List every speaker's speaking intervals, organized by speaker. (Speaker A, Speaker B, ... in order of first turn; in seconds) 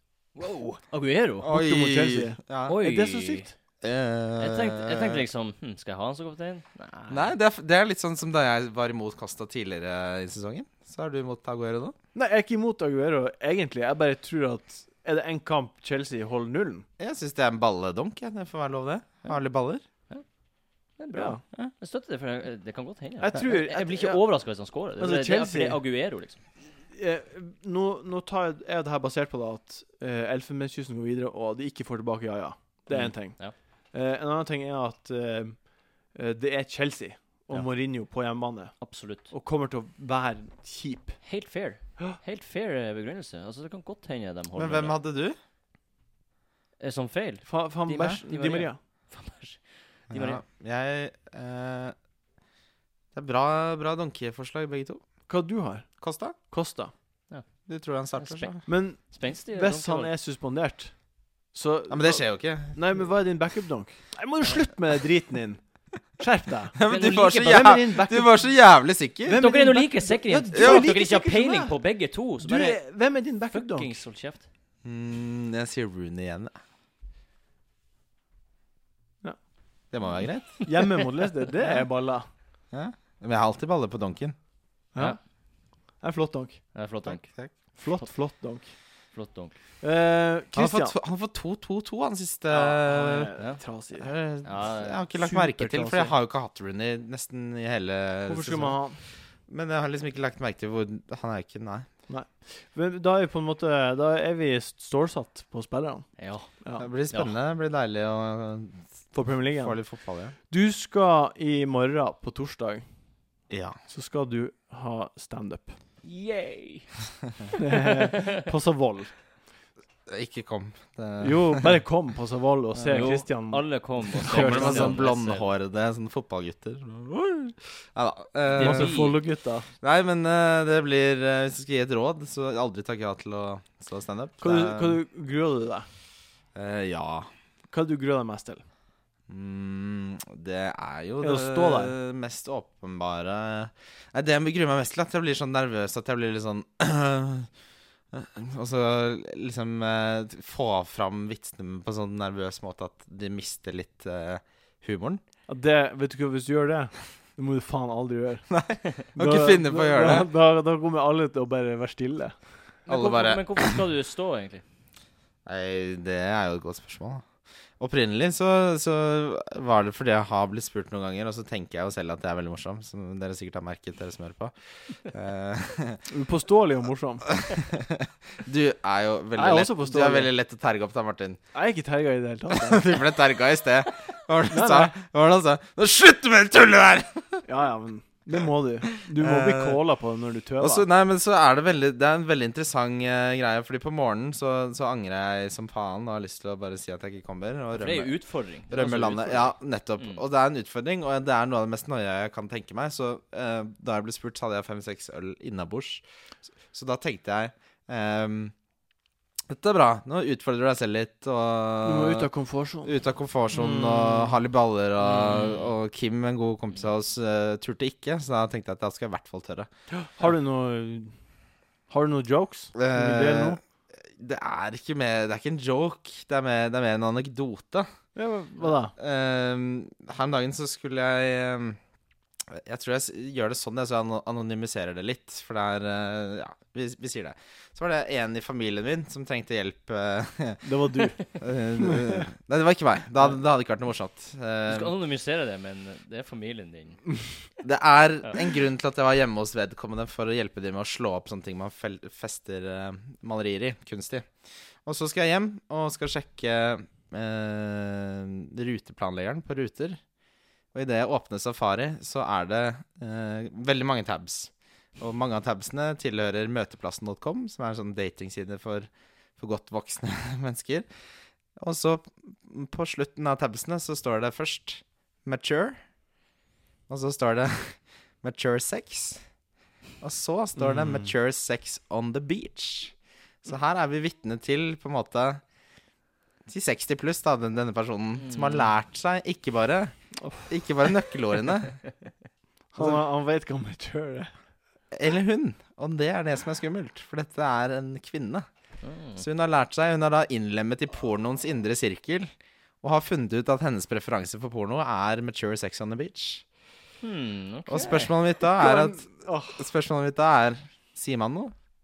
Speaker A: 0.4-1.5, 2.7-3.5, 4.4-7.3, 21.0-26.4, 32.9-33.5, 38.8-39.3, 41.2-45.0, 46.8-50.4, 58.1-60.1, 66.9-67.8, 69.4-72.9, 73.5-74.5, 86.7-87.3, 89.1-89.6, 94.5-95.0, 106.2-106.5, 116.0-117.1, 117.8-118.3, 122.8-125.5, 128.5-129.2, 162.9-164.6, 197.8-200.2, 215.1-215.7, 244.7-247.0, 288.2-288.7, 298.8-299.2, 307.0-308.1
Speaker B: 1.4-2.8, 3.8-5.2, 7.1-12.0, 17.0-19.8, 44.5-45.4, 50.1-52.0, 53.1-55.0, 56.0-56.4, 57.7-58.6, 61.9-62.8, 66.8-69.4, 70.5-70.9, 74.8-76.6, 79.9-80.7, 82.7-84.4, 87.0-87.6, 90.5-93.3, 94.0-98.8, 99.5-101.9, 106.8-108.9, 109.6-110.3, 113.5-113.8, 120.1-121.7, 124.2-129.0, 129.8-135.0, 136.6-137.3, 139.3-147.5, 148.1-155.2, 158.5-160.3, 162.9-163.8, 165.5-167.3, 167.8-176.0, 177.4-181.4, 182.5-187.4, 189.1-189.8, 190.6-198.1, 198.7-206.0, 206.7-208.5, 209.5-212.3, 212.8-219.7, 222.8-227.9, 228.9-231.8, 232.5-240.7, 241.2-244.9, 247.6-254.3, 254.8-260.0, 260.7-270.9, 271.6-275.8, 276.9-279.3, 280.0-285.4, 286.5-289.9, 290.5-291.8, 292.8-293.0, 294.9-298.5, 299.2-302.3, 302.8-306.4, 307.7-311.5
Speaker C: 1.5-3.5, 12.2-16.9, 21.1-21.4, 23.2-24.2, 25.0-25.8, 26.7-41.2, 47.5-48.8, 55.3-56.9, 58.7-68.5, 69.2-71.8, 72.4-74.0, 80.7-82.3, 84.9-85.2, 86.0-86.7, 87.7-88.7, 89.8-91.0, 92.5-94.1, 95.2-96.1, 98.3-99.0, 102.1-106.1, 106.6-106.9, 109.1-109.8, 110.5-112.9, 113.9-115.8, 117.6-119.1, 121.2-125.0, 128.6-129.7, 134.4-135.9, 137.7-138.6, 141.2-141.9, 155.5-158.5, 159.1-162.4, 176.1-177.3, 179.3-180.3, 181.5-183.0, 184.5-185.0, 187.5-190.9, 211.8-212.9, 213.5-214.3, 219.9-221.1, 221.9-223.6, 228.2-228.9, 240.6-241.2, 241.8-242.2, 280.6-281.0, 290.2-290.5, 292.8-294.3, 308.4-309.7